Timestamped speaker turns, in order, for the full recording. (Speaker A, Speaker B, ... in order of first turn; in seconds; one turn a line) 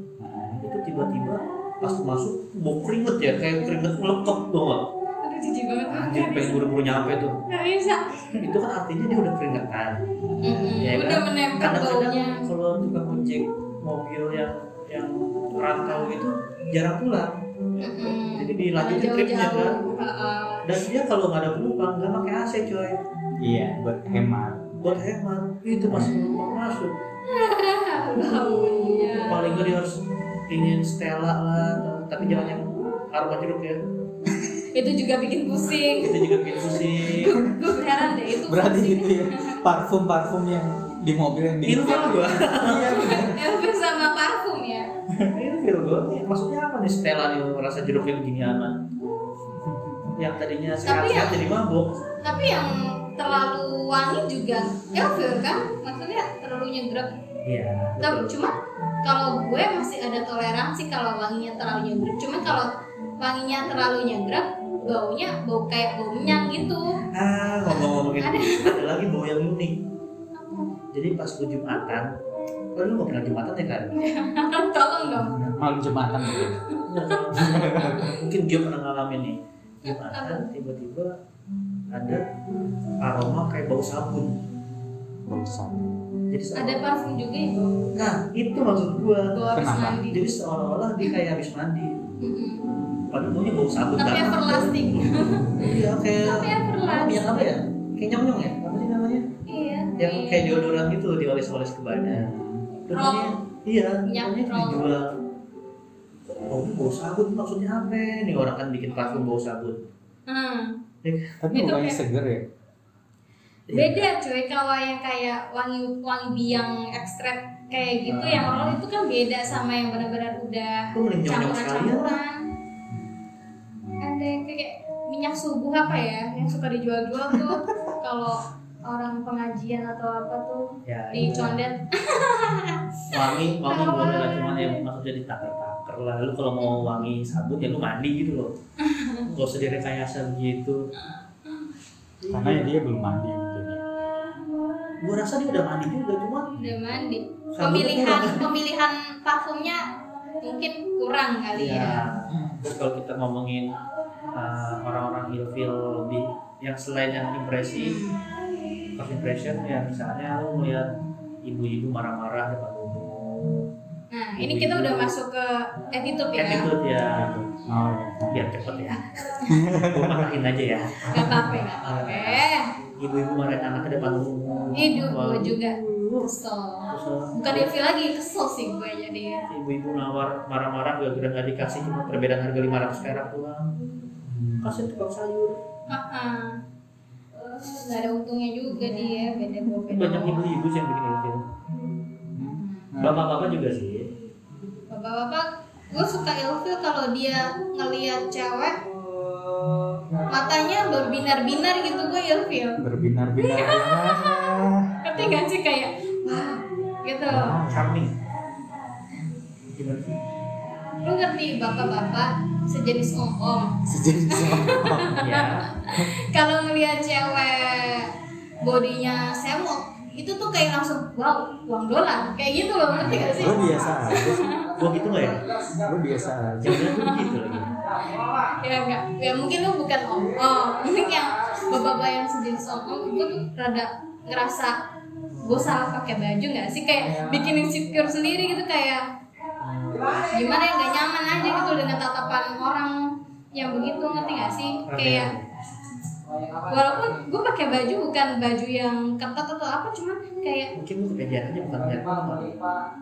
Speaker A: 0.2-0.6
Speaker B: 0.6-4.8
Speaker C: 5.2-6.6
Speaker B: 5.9-7.3
Speaker C: 7.5-8.3
Speaker B: 8.4-10.0
Speaker A: 10.2-10.9
Speaker C: 10.4-12.4
Speaker B: 10.6-17.4
Speaker C: 17.8-20.6
Speaker B: 18.1-19.8
Speaker B: 20.6-22.9
Speaker A: 23.4-24.9
Speaker B: 24.8-26.9
Speaker C: 26.0-26.4
Speaker C: 27.3-29.7
Speaker B: 29.1-33.8
Speaker C: 34.7-39.6
Speaker B: 36.0-37.4
Speaker A: 38.4-43.4
Speaker B: 41.6-43.1
Speaker C: 42.9-44.9
Speaker B: 45.3-48.8
Speaker B: 50.1-52.0
Speaker C: 50.8-51.4
Speaker C: 52.2-57.1
Speaker B: 57.4-58.3
Speaker C: 58.0-67.0
Speaker B: 67.1-69.8
Speaker C: 68.2-68.7
Speaker C: 70.3-70.7
Speaker B: 70.9-72.1
Speaker B: 72.8-74.0
Speaker C: 74.0-75.5
Speaker A: 75.1-76.6
Speaker C: 76.2-76.8
Speaker B: 76.8-81.1
Speaker A: 77.3-78.2
Speaker C: 77.7-78.0
Speaker C: 79.8-80.4
Speaker B: 81.9-82.2
Speaker B: 83.0-84.3
Speaker A: 85.2-86.0
Speaker B: 86.3-86.8
Speaker C: 86.5-87.7
Speaker B: 88.0-91.9
Speaker C: 89.3-90.3
Speaker A: 89.5-90.0
Speaker C: 92.2-92.6
Speaker B: 93.1-99.2
Speaker C: 94.0-95.7
Speaker C: 96.2-97.3
Speaker C: 99.5-100.6
Speaker B: 100.0-102.3
Speaker A: 102.1-102.7
Speaker B: 102.9-105.1
Speaker C: 102.9-103.4
Speaker C: 104.0-104.9
Speaker B: 106.5-109.8
Speaker C: 108.9-109.3
Speaker C: 110.3-110.8
Speaker B: 111.0-111.3
Speaker A: 111.4-112.4
Speaker C: 111.5-112.0
Speaker B: 113.7-114.1
Speaker C: 113.7-122.4
Speaker A: 118.1-118.8
Speaker B: 118.2-118.6
Speaker B: 120.9-122.2
Speaker C: 124.0-134.7
Speaker B: 130.8-131.6
Speaker B: 133.1-138.5
Speaker C: 136.6-137.0
Speaker C: 138.8-139.2
Speaker B: 139.2-140.9
Speaker B: 142.2-142.7
Speaker A: 142.3-143.8
Speaker B: 145.0-146.5
Speaker C: 146.6-149.8
Speaker B: 147.5-148.5
Speaker C: 150.4-152.0
Speaker B: 151.5-153.7
Speaker A: 152.3-152.6
Speaker B: 154.3-158.0
Speaker C: 157.8-158.2
Speaker B: 158.9-160.9
Speaker B: 161.4-163.7
Speaker C: 164.1-166.7
Speaker B: 164.4-165.1
Speaker B: 166.3-167.3
Speaker A: 167.1-168.4
Speaker B: 168.3-172.5
Speaker A: 169.5-170.3
Speaker C: 171.1-172.7
Speaker B: 173.0-176.3
Speaker C: 174.7-179.4
Speaker B: 176.9-177.7
Speaker B: 179.5-183.7
Speaker A: 184.2-184.8
Speaker B: 184.6-185.6
Speaker C: 185.9-186.6
Speaker C: 187.6-190.4
Speaker B: 189.9-191.4
Speaker A: 192.3-193.2
Speaker C: 192.4-192.9
Speaker B: 193.0-194.1
Speaker C: 194.9-198.8
Speaker C: 200.3-202.8
Speaker A: 202.8-205.4
Speaker C: 203.4-207.6
Speaker A: 207.3-207.9
Speaker B: 207.3-208.1
Speaker B: 209.7-210.1
Speaker C: 211.0-213.8
Speaker A: 213.8-215.2
Speaker C: 214.3-218.1
Speaker B: 215.1-215.7
Speaker C: 218.6-224.7
Speaker B: 223.0-224.2
Speaker A: 223.0-224.4
Speaker B: 224.7-225.4
Speaker A: 225.8-226.8
Speaker B: 226.6-227.7
Speaker C: 226.7-227.7
Speaker C: 228.4-234.7
Speaker C: 235.4-239.0
Speaker B: 239.6-240.4
Speaker C: 240.3-245.3
Speaker B: 244.8-245.5
Speaker C: 246.7-250.7
Speaker B: 250.8-252.5